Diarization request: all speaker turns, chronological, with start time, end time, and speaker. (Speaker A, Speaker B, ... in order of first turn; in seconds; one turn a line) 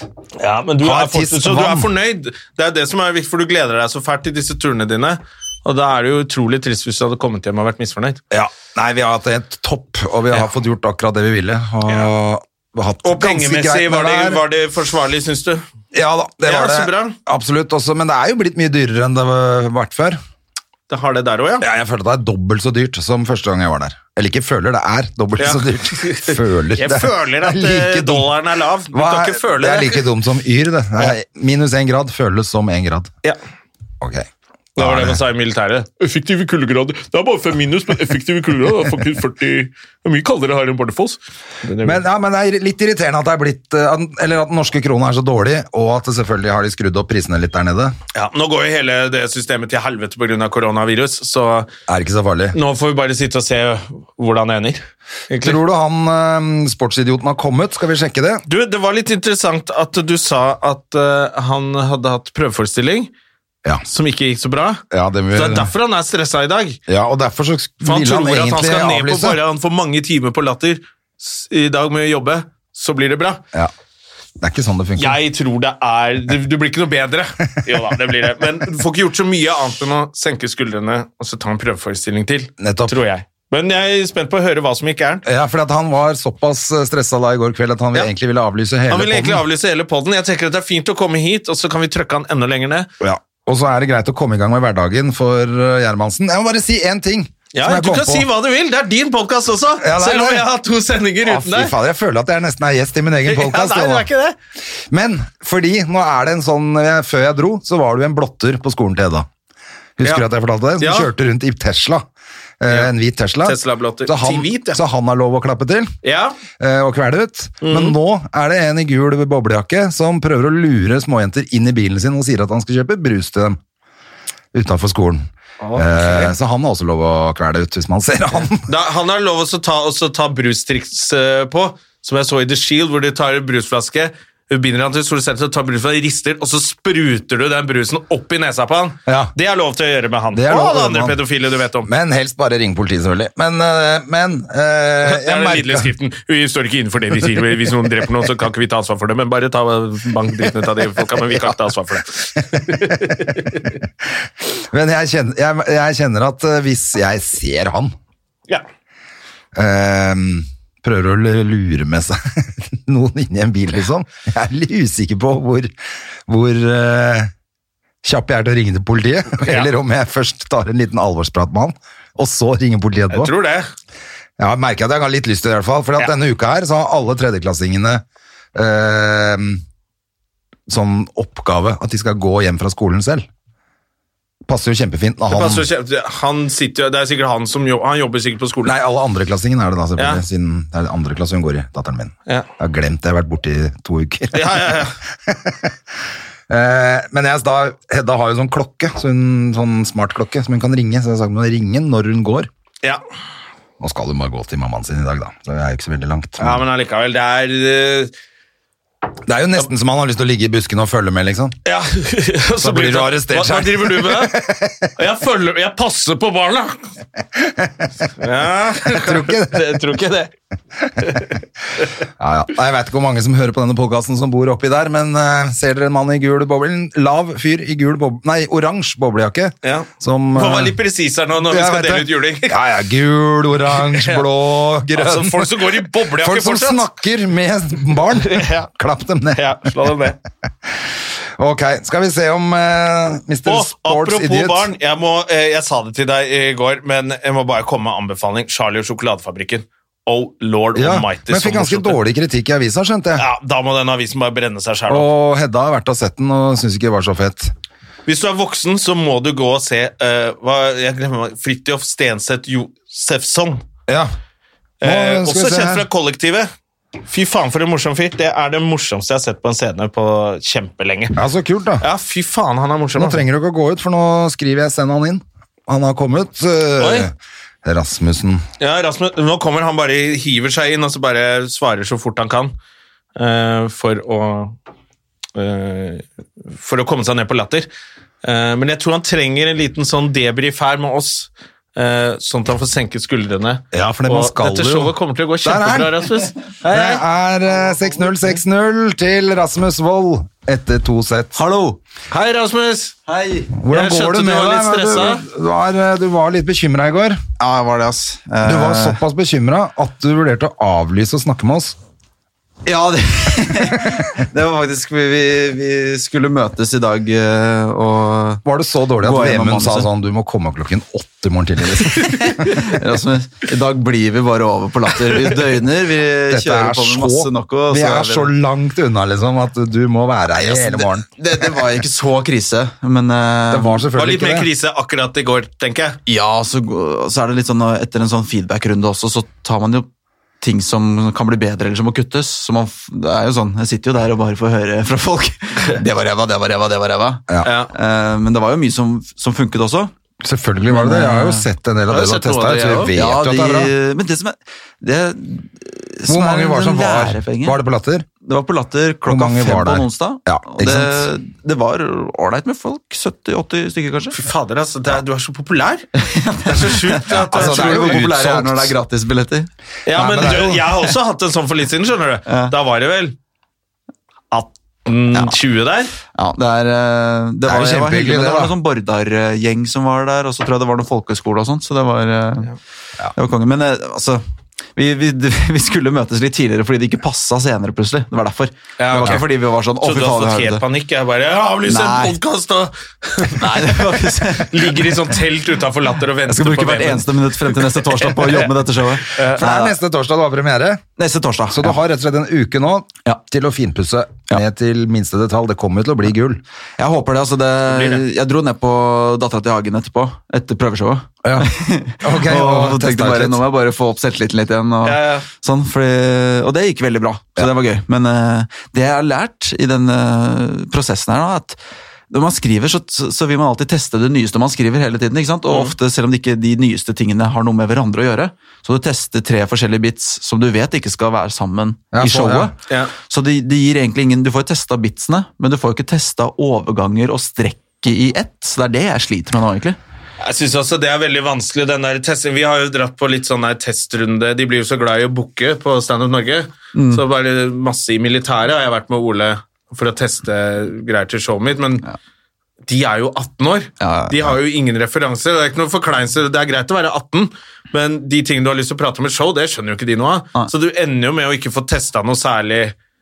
Speaker A: 0.4-8.2
Speaker B: 0.8-1.9
Speaker B: 8.3-14.4
Speaker A: 13.0-15.6
Speaker B: 15.9-20.2
Speaker A: 16.4-17.1
Speaker A: 20.9-21.7
Speaker B: 21.6-28.3
Speaker A: 25.4-30.1
Speaker B: 28.9-33.1
Speaker B: 34.0-35.2
Speaker A: 34.8-42.0
Speaker B: 41.8-47.9
Speaker A: 48.1-51.7
Speaker B: 51.9-52.6
Speaker A: 52.5-55.6
Speaker B: 55.4-58.4
Speaker A: 58.5-63.1
Speaker A: 63.9-64.8
Speaker B: 64.9-65.7
Speaker A: 65.3-66.8
Speaker B: 66.9-69.4
Speaker A: 67.8-73.4
Speaker B: 74.4-75.2
Speaker A: 75.0-85.2
Speaker B: 82.6-83.0
Speaker B: 85.2-89.4
Speaker A: 88.9-92.9
Speaker B: 93.0-98.3
Speaker A: 97.5-101.7
Speaker B: 99.8-100.4
Speaker B: 101.2-104.1
Speaker A: 103.2-104.3
Speaker B: 104.9-109.3
Speaker B: 110.0-112.0
Speaker A: 110.8-111.1
Speaker B: 112.6-115.9
Speaker A: 113.4-114.8
Speaker A: 116.0-116.3
Speaker B: 116.6-123.6
Speaker A: 117.6-118.0
Speaker B: 124.5-128.6
Speaker A: 125.6-126.3
Speaker A: 128.6-141.9
Speaker B: 139.1-139.3
Speaker B: 140.3-141.2
Speaker B: 141.8-145.9
Speaker A: 145.0-153.8
Speaker B: 152.7-153.3
Speaker B: 154.4-157.9
Speaker B: 159.5-165.7
Speaker B: 166.3-167.3
Speaker B: 168.0-173.3
Speaker A: 169.4-169.7
Speaker A: 173.1-173.7
Speaker B: 174.4-178.0
Speaker B: 178.5-179.6
Speaker B: 180.7-183.2
Speaker B: 184.5-185.7
Speaker A: 185.3-188.8
Speaker B: 188.6-195.7
Speaker A: 190.0-190.2
Speaker A: 194.3-194.9
Speaker B: 196.5-202.5
Speaker B: 203.8-206.6
Speaker A: 206.4-208.1
Speaker B: 209.3-211.6
Speaker A: 211.7-214.3
Speaker B: 212.6-214.9
Speaker A: 215.0-216.8
Speaker B: 217.3-218.1
Speaker A: 218.2-220.3
Speaker B: 218.8-219.7
Speaker A: 221.0-221.9
Speaker B: 222.2-230.8
Speaker A: 229.6-232.5
Speaker B: 231.4-239.9
Speaker A: 233.9-234.2
Speaker A: 234.9-236.8
Speaker A: 238.1-238.7
Speaker A: 239.3-240.2
Speaker B: 241.4-244.7
Speaker A: 243.4-252.0
Speaker B: 250.7-253.2
Speaker A: 253.2-255.1
Speaker B: 254.9-257.5
Speaker A: 258.1-263.6
Speaker B: 263.9-264.1
Speaker B: 264.8-265.9
Speaker A: 264.8-266.5
Speaker A: 267.1-271.2
Speaker B: 271.1-271.8
Speaker A: 271.8-273.2
Speaker B: 272.9-277.1
Speaker A: 276.8-277.1
Speaker B: 277.6-278.4
Speaker A: 278.6-282.5
Speaker A: 283.1-284.5
Speaker A: 285.4-287.7
Speaker A: 288.2-296.6
Speaker B: 293.7-294.9
Speaker B: 295.4-296.1
Speaker B: 296.6-301.4
Speaker C: 296.7-296.9
Speaker C: 301.4-301.8
Speaker A: 302.1-302.9
Speaker C: 303.1-303.5
Speaker B: 303.6-307.2
Speaker A: 303.7-305.2
Speaker C: 307.4-309.0
Speaker B: 308.4-311.8
Speaker C: 312.6-318.4
Speaker B: 318.4-322.6
Speaker C: 319.0-319.9
Speaker C: 322.0-328.3
Speaker B: 326.3-331.1
Speaker C: 330.4-333.8
Speaker B: 333.5-334.5
Speaker A: 333.9-336.0
Speaker C: 336.1-339.9
Speaker C: 340.4-349.9
Speaker A: 347.4-347.7
Speaker B: 350.2-353.7
Speaker C: 350.7-351.5
Speaker A: 351.9-352.9
Speaker C: 352.9-357.6
Speaker B: 356.1-358.1
Speaker C: 358.2-364.2
Speaker B: 359.1-361.1
Speaker A: 364.1-365.9
Speaker C: 366.0-369.5
Speaker A: 366.4-368.0
Speaker B: 367.1-368.8
Speaker A: 369.9-373.1
Speaker B: 369.9-370.8
Speaker C: 372.3-372.5
Speaker A: 374.3-375.9
Speaker C: 376.1-382.5
Speaker B: 377.4-378.5
Speaker C: 383.1-384.2
Speaker C: 384.8-390.6
Speaker A: 388.8-389.2
Speaker A: 389.8-398.5
Speaker C: 391.7-392.1
Speaker C: 393.3-395.1
Speaker C: 396.3-399.7
Speaker A: 399.1-399.4
Speaker B: 399.3-400.8
Speaker C: 401.0-401.8
Speaker B: 401.5-406.4
Speaker C: 406.8-421.6
Speaker A: 407.7-408.0
Speaker B: 411.2-413.4
Speaker A: 414.8-415.3
Speaker C: 422.1-439.8
Speaker A: 425.5-425.7
Speaker B: 431.9-432.5
Speaker A: 440.2-451.9
Speaker C: 446.7-447.0
Speaker A: 452.7-462.7
Speaker C: 453.8-454.3